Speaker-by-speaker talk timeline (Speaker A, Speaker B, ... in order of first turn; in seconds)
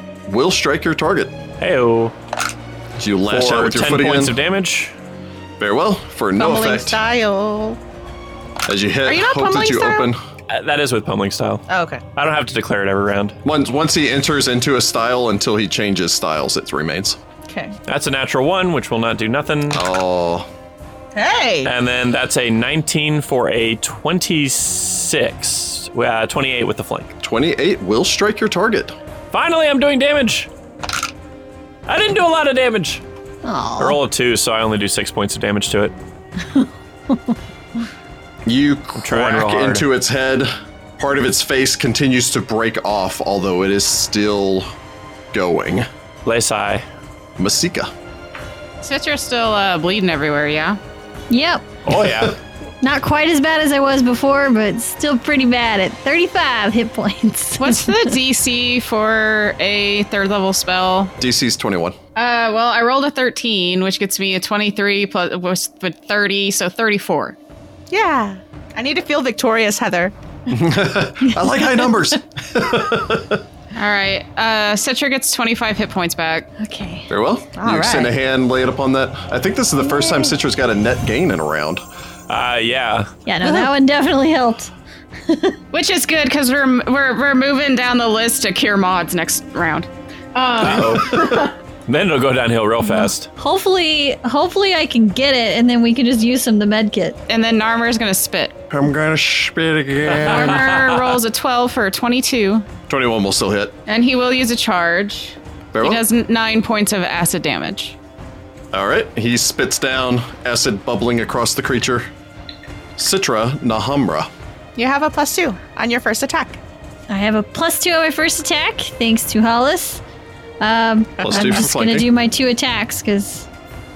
Speaker A: 0.3-1.4, 3.0-4.4, 5.6-7.0, 8.7-10.2, 13.4-17.2, 19.7-20.5, 27.2-28.9, 38.5-44.7, 45.3-45.9, 47.4-47.9, 51.9-52.4, 61.2-62.0, 70.5-73.4, 77.1-81.8, 90.9-91.4, 98.7-100.8, 102.9-103.7, 105.7-106.0, 108.7-112.1, 113.0-114.3, 121.2-122.1
Speaker B: 1.6-2.1, 3.3-4.9, 10.5-13.4, 17.9-19.8, 21.6-27.1, 29.3-30.5, 31.9-33.0, 33.8-35.9, 39.0-39.8, 46.2-46.8, 51.8-52.4, 82.3-83.1, 90.6-93.3
Speaker C: 6.4-7.8, 9.0-10.1, 11.7-12.0, 17.5-17.7, 21.1-21.7, 67.9-70.1, 77.6-78.1, 114.8-116.6
Speaker D: 33.4-34.0, 36.5-37.2, 51.3-51.6, 52.8-58.2, 76.6-77.1, 79.8-80.3, 83.2-84.7, 85.3-85.5, 92.8-97.2, 117.1-120.0, 120.6-123.5
Speaker E: 48.8-50.8, 57.6-61.1, 62.1-67.3, 73.7-76.5, 85.7-91.3, 97.3-98.5, 100.1-102.7, 103.9-108.0